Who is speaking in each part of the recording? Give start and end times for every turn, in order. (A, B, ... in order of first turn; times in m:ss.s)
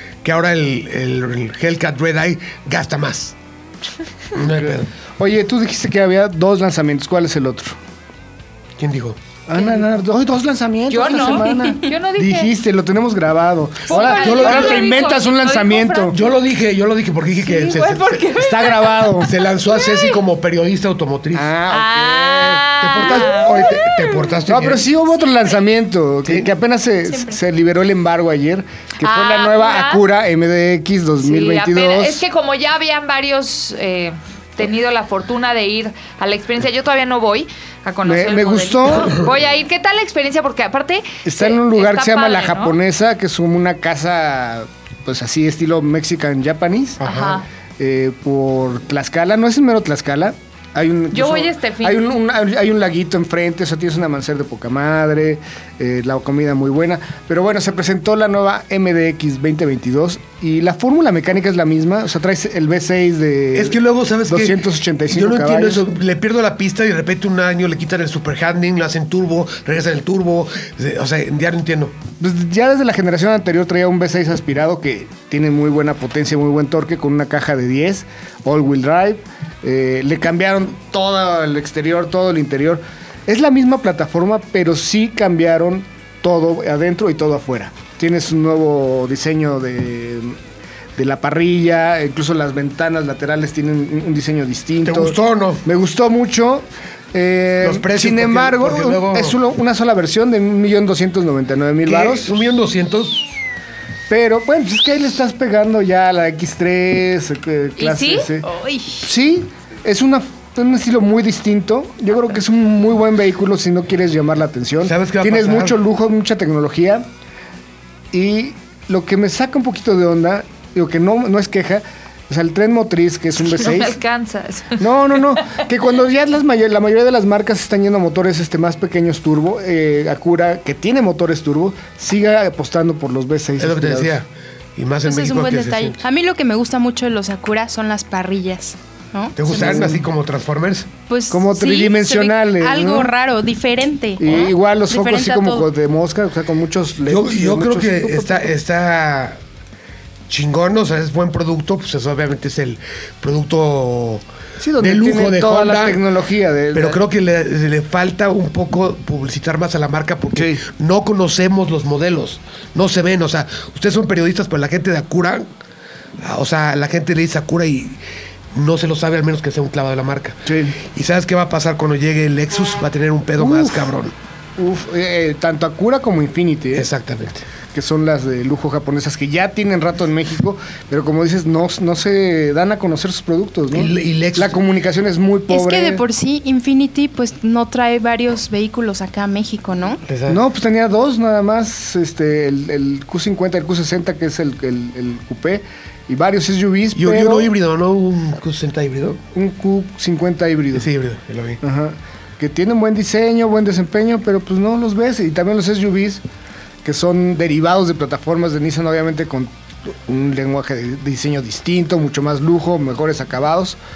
0:00.2-0:03.4 A
0:04.3-0:04.9 A
0:04.6-0:07.8 B
0:08.8-0:09.2 A
0:09.5-0:16.2 B
0:10.9-0:12.5 C
0:11.1-0:11.8 D
0:13.9-0:16.2 C
0:14.0-0:14.9 A
0:16.1-0:18.3 A
0:17.4-0:20.2 C
0:18.3-0:19.3 B
0:19.2-0:21.5 A
0:21.3-0:23.1 B
0:21.7-0:24.4 C
0:22.8-0:24.9 A
0:24.5-0:32.2 B
0:26.2-0:26.5 A
0:27.1-0:27.4 D
0:29.0-0:30.0 C
0:31.2-0:42.8 C
0:38.0-0:39.3 B
0:41.2-0:47.1 B
0:47.0-0:47.4 A
0:47.0-0:47.5 C
0:47.8-1:05.9 B
0:51.1-0:52.1 C
1:03.5-1:12.0 A
1:12.2-1:30.4 B
1:31.0-1:42.3 B
1:34.8-1:35.6 A
1:37.6-1:39.4 A
1:41.8-1:43.3 A
1:44.1-1:48.5 B
1:47.8-1:48.3 C
1:48.4-1:49.0 D
1:49.0-1:57.1 B
1:54.8-1:55.8 A
1:58.1-2:04.0 B
2:03.5-2:04.8 C
2:04.8-2:14.2 B
2:13.6-2:16.0 A
2:15.1-2:20.0 D
2:19.4-2:20.9 A
2:19.5-2:20.1 B
2:21.1-2:25.7 D
2:21.3-2:23.1 B
2:24.2-2:28.5 B
2:27.1-2:29.4 A
2:30.3-2:34.2 A
2:34.6-2:37.0 B
2:34.8-2:36.0 A
2:36.7-2:45.5 A
2:40.4-2:40.6 B
2:46.2-2:48.0 A
2:48.5-2:54.1 A
2:50.5-2:50.8 B
2:53.4-2:53.9 B
2:54.6-2:56.9 B
2:56.7-2:57.4 A
2:57.7-3:06.0 B
3:03.7-3:04.6 A
3:05.5-3:10.0 D
3:10.0-3:10.4 A
3:10.3-3:17.5 B
3:17.0-3:19.2 A
3:19.3-3:20.9 B
3:20.7-3:21.6 A
3:21.6-3:26.2 B
3:26.8-3:33.8 B